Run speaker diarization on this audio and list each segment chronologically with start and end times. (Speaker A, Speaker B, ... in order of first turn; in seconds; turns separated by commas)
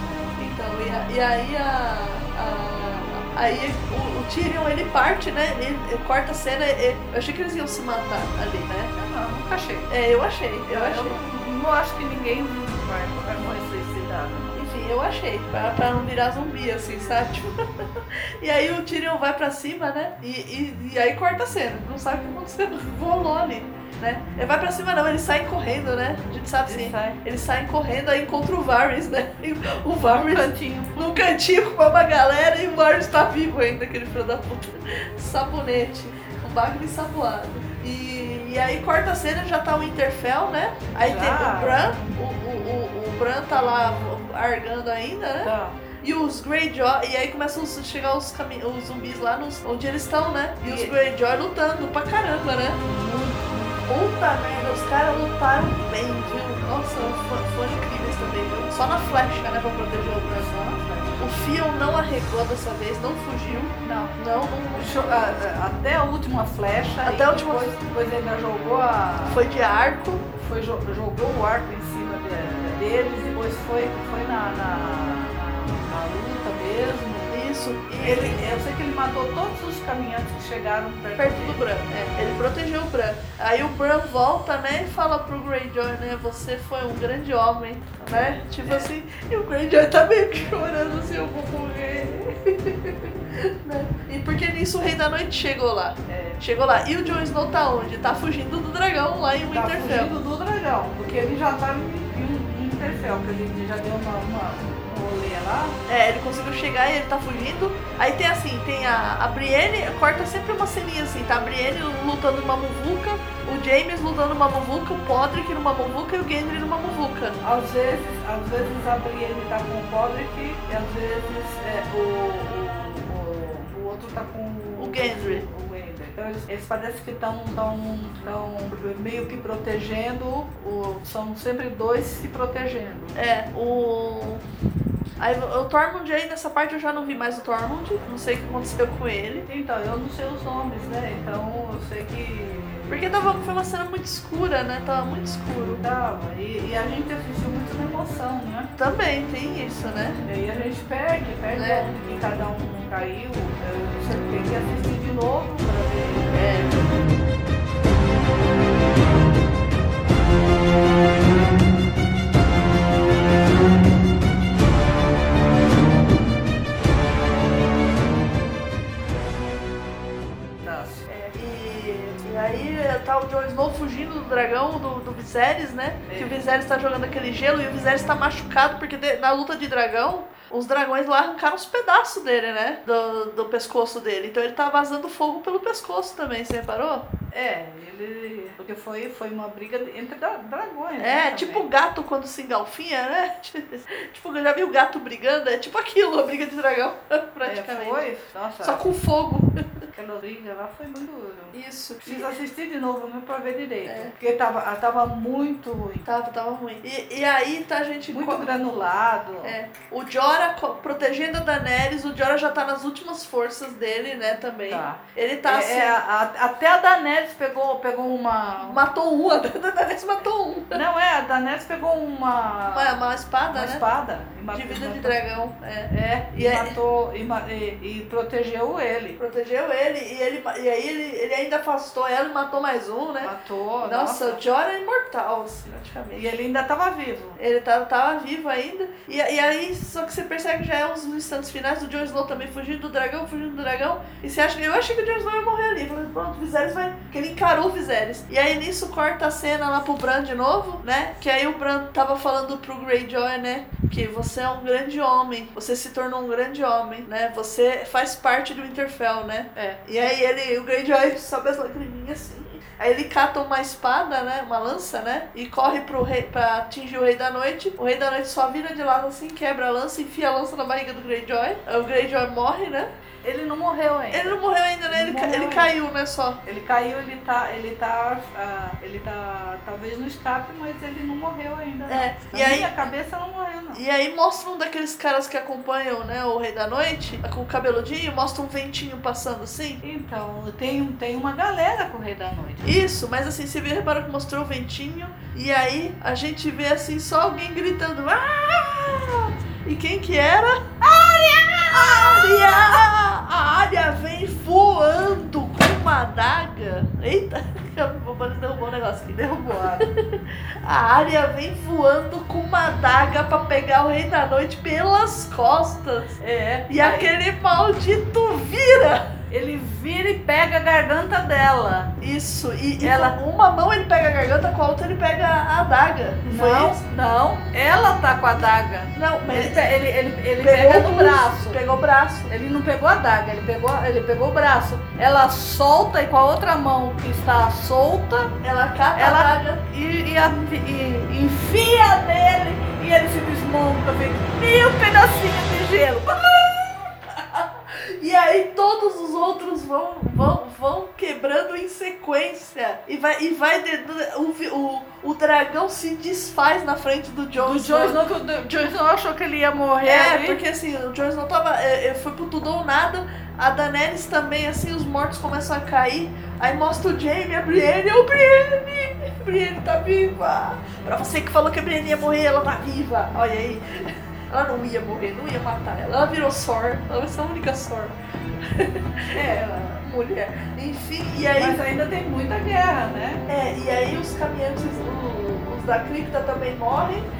Speaker A: 0.4-8.9, Speaker B: 8.9-9.9, Speaker A: 9.9-11.2, Speaker B: 10.7-14.6, Speaker A: 14.5-52.8, Speaker B: 26.6-27.2, Speaker B: 30.1-31.1, Speaker B: 41.0-42.0, Speaker B: 45.4-45.8, Speaker B: 50.6-50.9, Speaker B: 52.8-53.8, Speaker A: 53.9-60.5, Speaker B: 60.2-61.2, Speaker A: 61.2-65.3, Speaker B: 63.8-64.1, Speaker B: 64.7-69.4, Speaker A: 67.0-67.7, Speaker A: 69.3-70.2, Speaker B: 70.3-77.3, Speaker A: 77.3-78.4, Speaker B: 78.0-81.6, Speaker A: 81.2-100.1, Speaker B: 96.1-96.4, Speaker B: 99.5-105.8, Speaker A: 105.9-117.4, Speaker B: 117.4-133.2, Speaker A: 124.8-125.4, Speaker A: 133.1-134.4, Speaker A: 135.2-139.4, Speaker B: 139.5-142.9, Speaker A: 142.9-145.8, Speaker B: 145.8-148.7, Speaker A: 148.8-150.2, Speaker B: 150.2-156.4, Speaker A: 151.5-151.9, Speaker A: 156.3-156.8, Speaker B: 170.6-171.3, Speaker A: 171.3-187.1, Speaker B: 176.1-176.4, Speaker B: 187.3-191.7, Speaker A: 191.0-198.0, Speaker B: 197.4-198.8, Speaker A: 198.6-199.8, Speaker B: 199.9-206.1, Speaker A: 201.5-202.3, Speaker A: 203.8-204.1, Speaker A: 206.1-208.5, Speaker B: 208.1-209.6, Speaker A: 209.4-216.0, Speaker B: 214.7-218.8, Speaker A: 218.6-220.8, Speaker B: 220.7-223.0, Speaker A: 222.7-223.8, Speaker B: 223.5-225.2, Speaker A: 224.5-226.7, Speaker B: 225.9-229.2, Speaker A: 229.2-236.3, Speaker B: 233.2-234.4, Speaker B: 236.1-237.4, Speaker A: 237.4-272.9, Speaker B: 273.2-275.7, Speaker A: 274.1-276.4, Speaker B: 276.4-283.8, Speaker A: 281.9-282.8, Speaker A: 283.7-289.8, Speaker B: 289.8-292.7, Speaker A: 292.6-316.2, Speaker B: 300.9-302.3, Speaker B: 309.2-309.9, Speaker B: 316.2-317.1, Speaker A: 316.7-319.1, Speaker B: 319.3-321.9, Speaker A: 322.0-326.8, Speaker B: 322.8-323.2, Speaker B: 326.2-331.6, Speaker A: 328.9-329.8, Speaker A: 330.4-332.3, Speaker B: 332.3-338.4, Speaker A: 338.4-339.6, Speaker B: 338.9-346.9, Speaker A: 347.1-358.0, Speaker B: 357.4-360.4, Speaker A: 359.8-381.6, Speaker B: 379.1-379.8, Speaker B: 381.3-383.2, Speaker A: 383.3-387.1